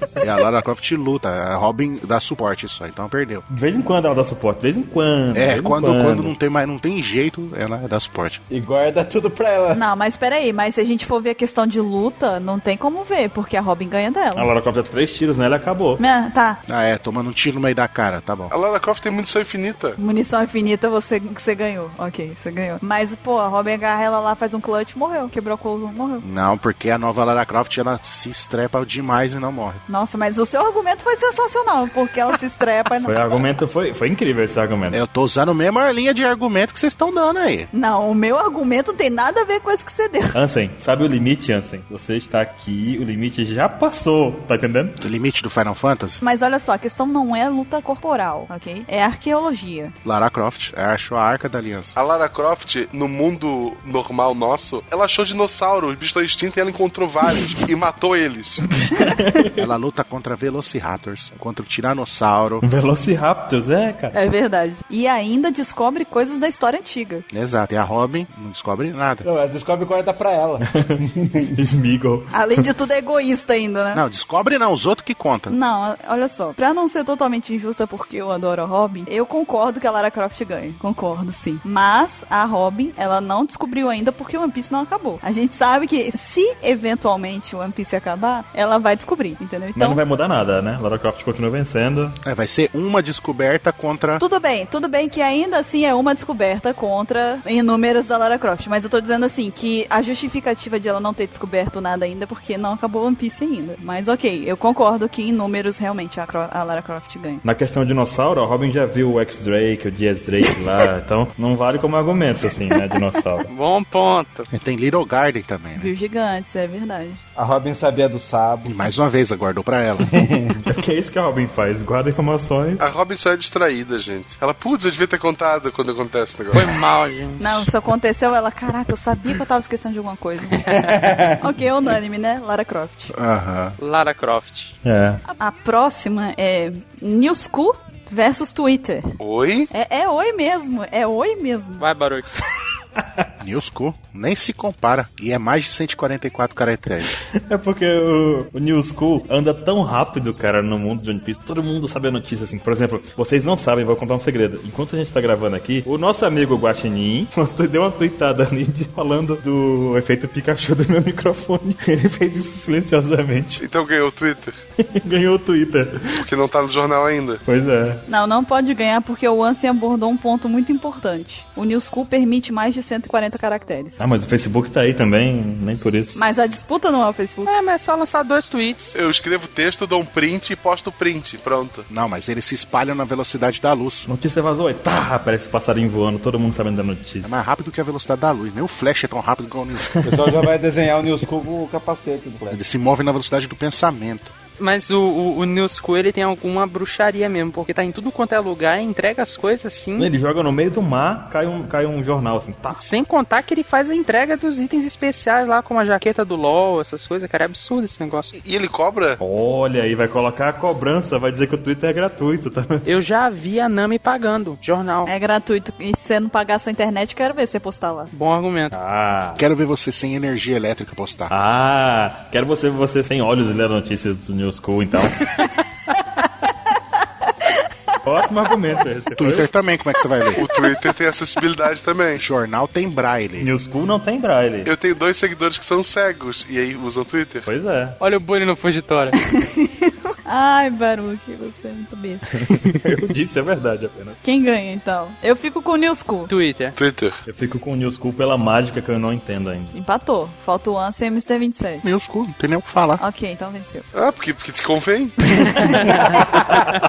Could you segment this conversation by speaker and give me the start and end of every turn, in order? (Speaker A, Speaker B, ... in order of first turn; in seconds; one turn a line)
Speaker A: 0.2-3.4
Speaker B: 3.5-6.3
Speaker A: 5.3-8.4
Speaker C: 8.5-9.8
Speaker D: 9.7-14.5
Speaker B: 14.3-16.0
Speaker D: 16.0-16.6
Speaker A: 16.7-18.5
Speaker E: 18.5-20.0
Speaker D: 20.0-26.2
Speaker A: 26.2-29.8
Speaker D: 29.9-33.5
Speaker B: 33.0-35.0
Speaker A: 34.9-37.7
Speaker D: 37.7-40.4
Speaker B: 40.3-45.0
Speaker A: 45.0-46.2
Speaker D: 46.2-49.9
Speaker A: 50.0-52.0
Speaker E: 52.0-58.6
Speaker B: 58.6-59.5
Speaker A: 59.6-62.6
Speaker B: 62.6-64.1
Speaker D: 64.1-67.2
Speaker A: 67.3-69.2
Speaker C: 69.2-71.5
Speaker B: 70.6-71.0
Speaker B: 71.5-72.7
Speaker D: 72.3-74.0
Speaker A: 73.9-75.6
Speaker D: 75.5-90.0
Speaker B: 89.8-92.2
Speaker A: 92.2-94.2
Speaker D: 94.2-107.4
Speaker B: 107.4-113.5
Speaker F: 113.5-114.5
Speaker A: 114.5-115.9
Speaker D: 115.8-117.2
Speaker C: 117.3-118.7
Speaker A: 118.6-120.1
Speaker C: 120.0-120.6
Speaker B: 120.6-122.9
Speaker E: 122.8-126.7
Speaker F: 126.5-127.7
Speaker D: 127.4-130.8
Speaker C: 130.8-131.4
Speaker D: 131.4-133.1
Speaker A: 133.1-133.7
Speaker F: 133.8-134.7
Speaker B: 134.8-135.2
Speaker D: 135.3-139.2
Speaker E: 139.2-139.7
Speaker D: 139.7-141.8
Speaker F: 141.8-142.3
Speaker B: 143.0-143.2
Speaker A: 143.4-147.1
Speaker B: 147.3-163.6
Speaker E: 163.6-164.6
Speaker B: 164.8-166.2
Speaker E: 166.2-167.4
Speaker B: 167.4-168.0
Speaker D: 168.1-174.0
Speaker B: 174.0-176.2
Speaker D: 176.1-177.5
Speaker F: 177.4-178.9
Speaker E: 178.9-181.9
Speaker A: 181.9-184.1
Speaker B: 184.1-187.3
Speaker A: 187.2-189.8
Speaker B: 189.9-190.5
Speaker C: 190.0-192.6
Speaker A: 192.5-194.3
Speaker F: 194.6-200.1
Speaker B: 200.0-202.8
Speaker F: 202.7-208.3
Speaker E: 208.3-209.2
Speaker B: 209.2-212.8
Speaker F: 212.8-215.1
Speaker D: 215.0-218.1
Speaker F: 218.1-218.7
Speaker B: 218.7-219.4
Speaker A: 219.3-221.3
Speaker B: 221.3-225.3
Speaker B: 228.0-229.5
Speaker A: 229.1-230.4
Speaker E: 230.4-232.2
Speaker A: 232.2-233.5
Speaker B: 233.4-234.7
Speaker E: 234.6-237.5
Speaker B: 237.4-238.0
Speaker F: 238.0-239.2
Speaker D: 239.2-242.3
Speaker B: 242.3-244.2
Speaker D: 244.2-246.3
Speaker F: 246.3-246.8
Speaker E: 246.8-247.2
Speaker B: 247.2-249.7
Speaker D: 249.7-251.8
Speaker A: 251.8-253.0
Speaker D: 253.0-253.9
Speaker E: 253.9-255.2
Speaker B: 255.5-256.7
Speaker D: 255.6-256.2